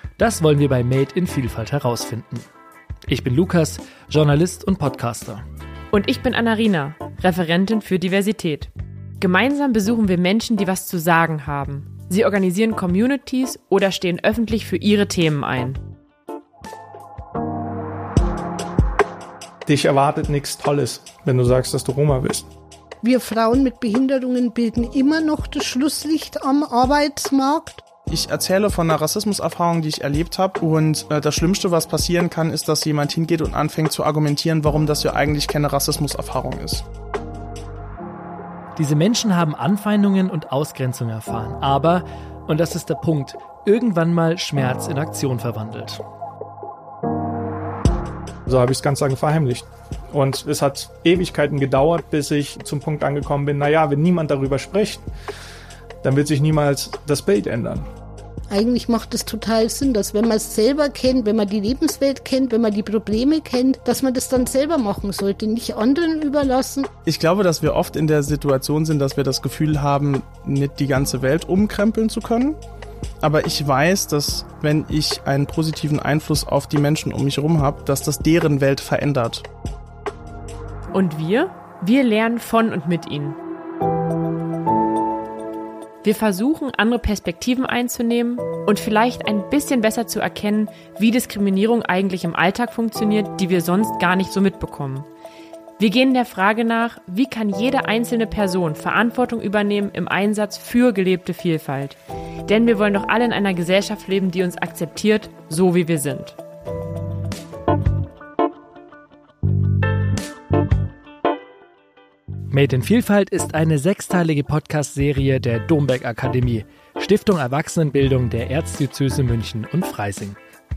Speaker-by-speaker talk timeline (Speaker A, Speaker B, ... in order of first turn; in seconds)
Speaker A: 0.2-2.5, 3.1-5.4, 38.8-46.0, 112.5-120.4
Speaker B: 5.9-15.8, 80.9-83.4, 86.0-95.1, 95.8-106.4
Speaker C: 19.7-22.5, 48.5-55.0, 56.0-57.9
Speaker D: 23.0-27.8, 58.5-66.9
Speaker E: 28.1-36.8, 67.1-72.6, 73.2-79.5